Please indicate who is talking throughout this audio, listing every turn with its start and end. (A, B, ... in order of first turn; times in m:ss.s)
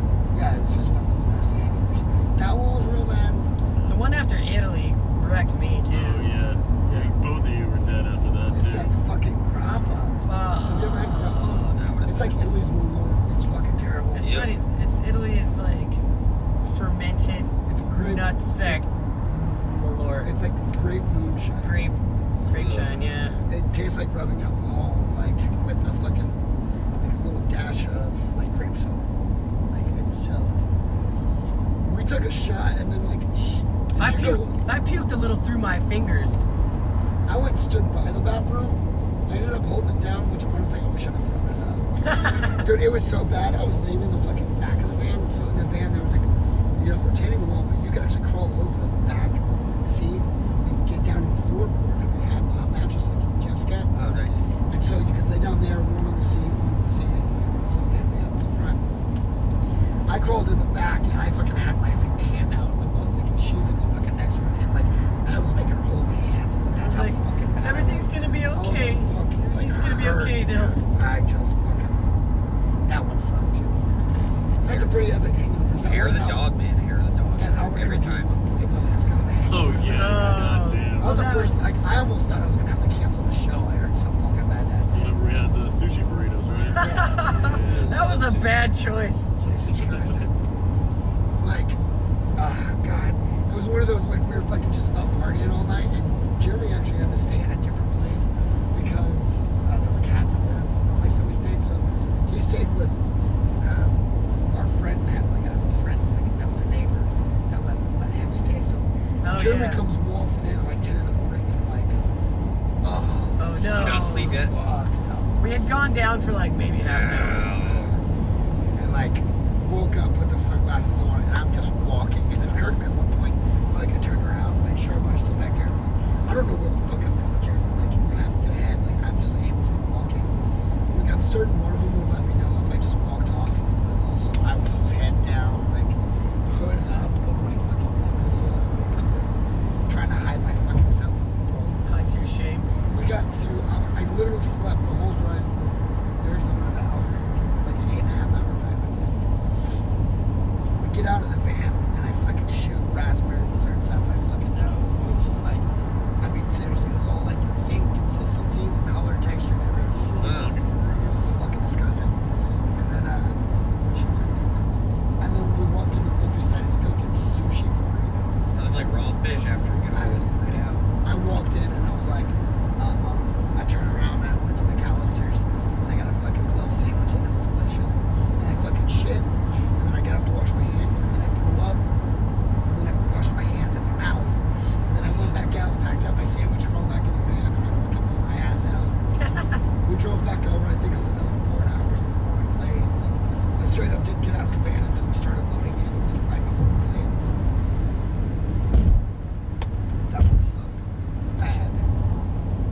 0:00.3-0:03.5 A
0:03.8-0:04.0 B
0:03.9-0:06.4 C
0:05.8-0:08.9 B
0:06.8-0:07.1 A
0:08.5-0:14.4 A
0:10.2-0:11.9 C
0:11.8-0:12.4 D
0:14.1-0:16.0 C
0:14.2-0:14.5 D
0:16.6-0:20.3 C
0:17.7-0:18.8 A
0:20.2-0:21.9 A
0:21.6-0:23.4 C
0:22.4-0:23.0 D
0:23.4-0:26.4 A
0:27.0-0:29.1 A
0:29.7-0:30.6 A
0:31.8-0:34.6 A
0:34.0-0:36.5 C
0:37.3-0:59.0 A
0:42.1-0:42.6 C
0:54.0-0:54.4 D
1:00.1-1:12.1 A
1:06.7-1:10.8 C
1:12.9-1:13.8 A
1:14.6-1:16.5 A
1:14.6-1:14.9 D
1:15.8-1:18.3 D
1:17.3-1:25.2 A
1:19.5-1:21.2 B
1:19.9-1:21.6 C
1:24.9-1:28.0 B
1:26.7-1:29.3 C
1:26.8-1:27.8 A
1:27.4-1:28.7 D
1:29.4-1:30.3 A
1:29.7-1:30.3 B
1:31.4-1:31.8 A
1:32.4-1:43.0 A
1:43.6-1:52.0 A
1:49.2-1:49.8 C
1:52.8-1:55.7 A
1:53.4-1:54.4 C
1:53.7-1:54.5 D
1:55.4-1:57.7 C
1:56.8-1:58.0 D
1:57.6-1:58.0 A
1:58.7-2:10.4 A
2:10.9-2:21.8 A
2:21.8-2:22.7 C
2:22.9-2:29.3 A
2:30.8-2:35.7 A
2:36.2-2:40.3 A
2:39.7-2:41.3 B
2:40.2-2:40.6 D
2:41.0-2:44.3 A
2:45.2-2:48.5 A
2:48.6-2:50.8 D
2:49.9-3:01.8 A
3:02.7-3:09.0 A
3:09.2-3:09.6 C
3:09.8-3:17.2 A
3:20.1-3:20.8 A
3:21.4-3:21.9 A